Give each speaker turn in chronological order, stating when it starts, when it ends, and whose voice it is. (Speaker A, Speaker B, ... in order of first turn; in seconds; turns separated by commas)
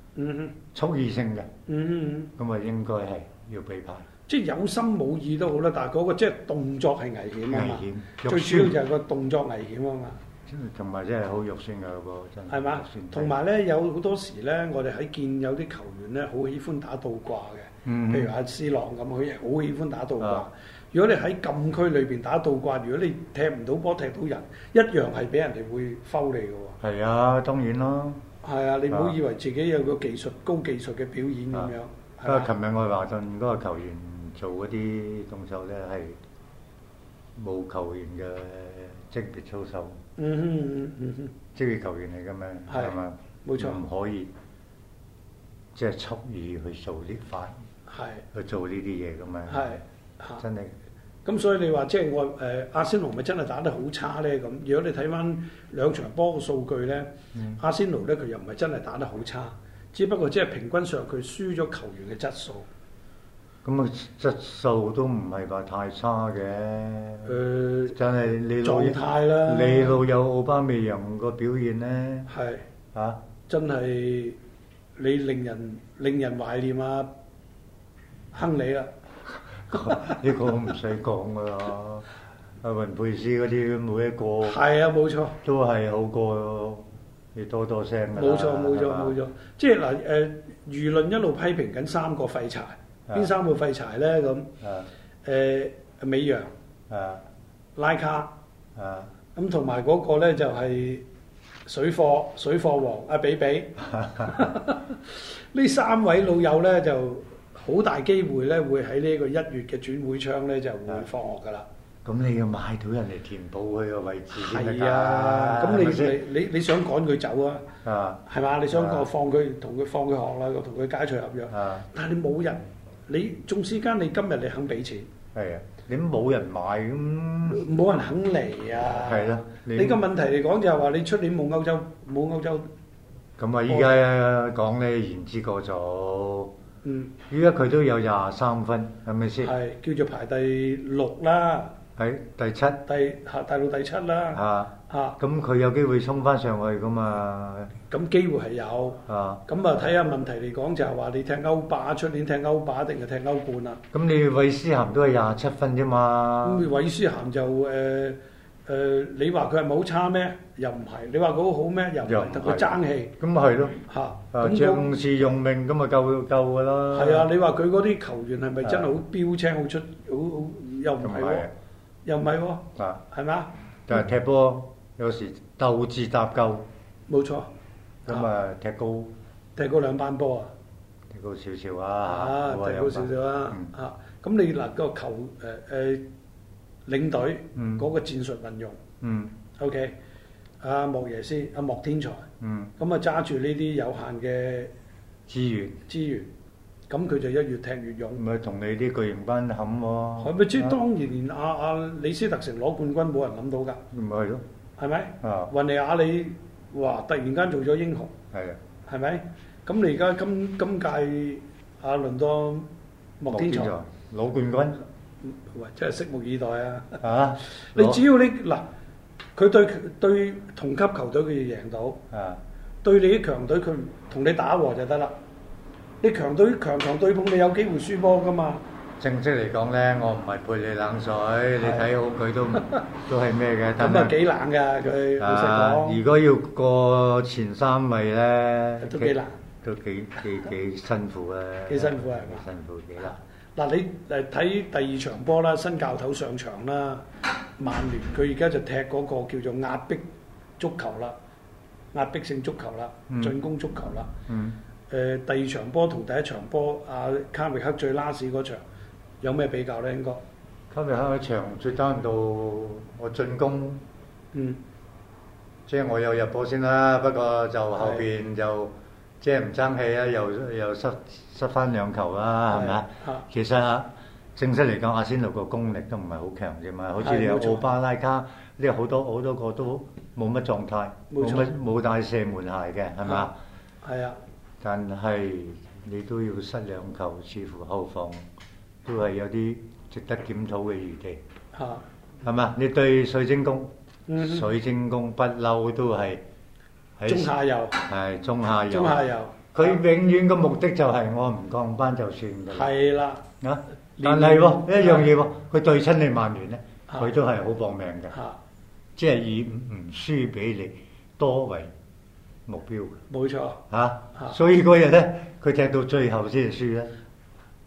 Speaker A: 0.1-0.6, Speaker B: 0.7-1.5, Speaker A: 1.7-2.3, Speaker B: 2.4-4.1, Speaker A: 4.3-10.2, Speaker B: 7.5-8.8, Speaker B: 10.5-13.3, Speaker A: 12.5-26.8, Speaker B: 17.8-18.3, Speaker B: 20.2-20.4, Speaker B: 26.8-28.2, Speaker A: 28.4-32.5, Speaker B: 28.9-29.1, Speaker B: 32.2-36.2, Speaker B: 37.4-40.0, Speaker A: 40.2-41.3, Speaker B: 41.5-44.3, Speaker A: 42.7-43.8, Speaker B: 45.7-47.6, Speaker A: 47.9-48.2, Speaker B: 48.3-49.8, Speaker A: 49.5-50.4, Speaker B: 50.4-50.8, Speaker A: 51.2-62.7, Speaker B: 57.3-57.6, Speaker B: 63.6-72.3, Speaker A: 67.2-68.0, Speaker A: 68.6-70.0, Speaker A: 72.3-72.6, Speaker B: 72.9-73.2, Speaker A: 73.5-74.4, Speaker A: 75.0-77.1, Speaker A: 78.3-78.9, Speaker B: 79.7-82.1, Speaker A: 79.7-80.2, Speaker B: 82.6-84.6, Speaker A: 84.4-85.4, Speaker B: 85.4-89.2, Speaker A: 88.2-94.5, Speaker B: 94.6-94.9, Speaker A: 95.2-96.5, Speaker B: 96.9-97.2, Speaker A: 97.8-98.3, Speaker B: 98.8-99.1, Speaker A: 99.3-101.0, Speaker A: 101.7-111.7, Speaker B: 103.8-104.5, Speaker B: 112.0-116.2, Speaker A: 114.3-117.7, Speaker B: 117.8-119.1, Speaker A: 118.3-125.1, Speaker B: 121.5-121.8, Speaker B: 125.3-127.7, Speaker A: 127.5-132.7, Speaker B: 128.9-130.0, Speaker B: 133.4-136.5, Speaker A: 136.8-137.1, Speaker B: 137.3-139.5, Speaker A: 139.4-141.8, Speaker B: 142.0-142.8, Speaker A: 142.8-145.2, Speaker B: 144.3-147.7, Speaker A: 147.9-153.8, Speaker B: 149.1-149.4, Speaker B: 153.9-156.7, Speaker A: 156.4-163.1, Speaker B: 162.0-167.3, Speaker A: 163.9-164.9, Speaker A: 166.9-171.5, Speaker B: 168.6-168.9, Speaker B: 171.0-171.5, Speaker A: 172.0-173.5, Speaker B: 172.8-173.0, Speaker B: 173.9-176.7, Speaker A: 177.1-177.5, Speaker B: 178.1-179.1, Speaker A: 179.6-180.5, Speaker B: 181.1-183.7, Speaker A: 182.0-186.1, Speaker A: 186.8-188.8, Speaker B: 187.5-187.8, Speaker B: 189.0-189.4, Speaker A: 189.6-189.9, Speaker A: 190.6-192.3, Speaker B: 192.4-192.7, Speaker A: 192.8-194.7, Speaker B: 195.3-195.8, Speaker A: 195.9-196.3, Speaker A: 196.9-198.2, Speaker B: 198.2-200.8, Speaker A: 200.2-203.8, Speaker B: 203.9-204.4, Speaker A: 204.8-208.1, Speaker B: 205.2-205.5, Speaker B: 208.3-208.6, Speaker A: 208.9-212.7, Speaker A: 213.2-213.7, Speaker B: 213.3-214.8, Speaker A: 215.2-218.7, Speaker B: 217.0-218.0, Speaker A: 219.3-222.0, Speaker B: 222.1-222.4, Speaker A: 222.8-225.1, Speaker A: 226.0-228.6, Speaker B: 229.0-234.2, Speaker A: 231.6-231.9, Speaker A: 233.8-236.0, Speaker B: 235.2-243.2, Speaker A: 238.8-239.4, Speaker A: 241.7-242.4, Speaker A: 243.0-247.0, Speaker A: 247.6-251.2, Speaker A: 251.9-254.1, Speaker B: 253.1-253.4, Speaker B: 254.3-254.6, Speaker A: 254.9-258.6, Speaker A: 259.2-260.2, Speaker B: 260.7-263.9, Speaker A: 264.3-264.6, Speaker B: 265.7-283.4, Speaker A: 267.8-268.1, Speaker A: 272.5-273.2, Speaker A: 277.0-277.6, Speaker A: 281.1-281.5, Speaker A: 283.8-284.2, Speaker B: 284.6-288.3, Speaker B: 288.8-291.2, Speaker A: 291.5-291.8, Speaker B: 292.2-296.2, Speaker A: 294.1-294.5, Speaker B: 297.0-302.7, Speaker A: 297.1-297.8, Speaker A: 298.7-299.8, Speaker A: 302.5-303.2, Speaker B: 303.4-308.2, Speaker A: 304.0-305.1, Speaker A: 308.1-308.4, Speaker B: 308.9-311.7, Speaker B: 312.5-313.0, Speaker A: 313.1-313.6, Speaker B: 313.7-316.9